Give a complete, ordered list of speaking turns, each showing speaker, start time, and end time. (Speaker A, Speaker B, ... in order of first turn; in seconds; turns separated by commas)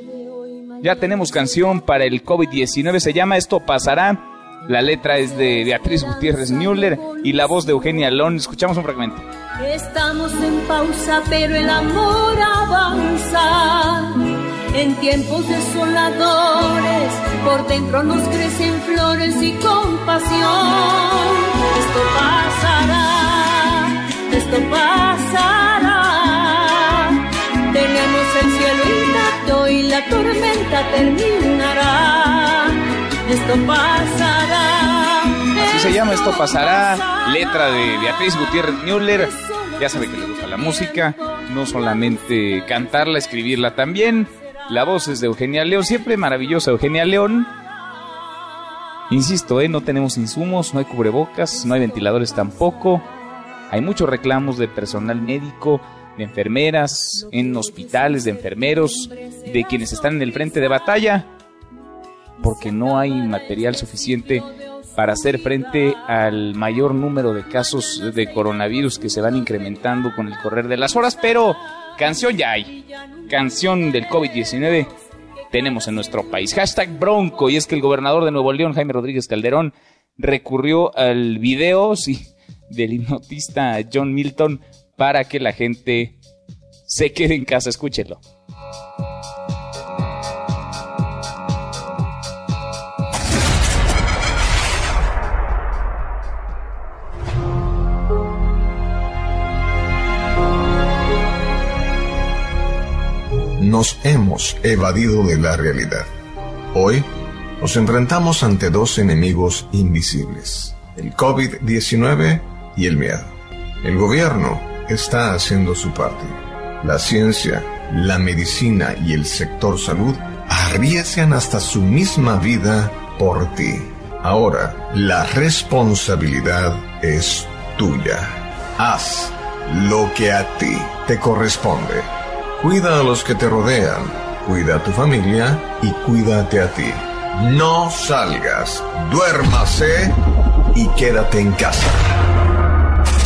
Speaker A: 0.2-1.3, Speaker B: 0.8-9.2, Speaker A: 5.2-8.2, Speaker A: 9.6-14.2, Speaker A: 14.7-38.0, Speaker B: 35.6-47.5, Speaker A: 39.0-41.3, Speaker B: 49.1-53.0, Speaker B: 53.7-61.3, Speaker B: 62.4-72.8, Speaker B: 73.3-74.9, Speaker B: 75.5-86.2, Speaker B: 86.9-88.2, Speaker C: 103.6-106.1, Speaker C: 106.7-140.2, Speaker C: 140.7-142.1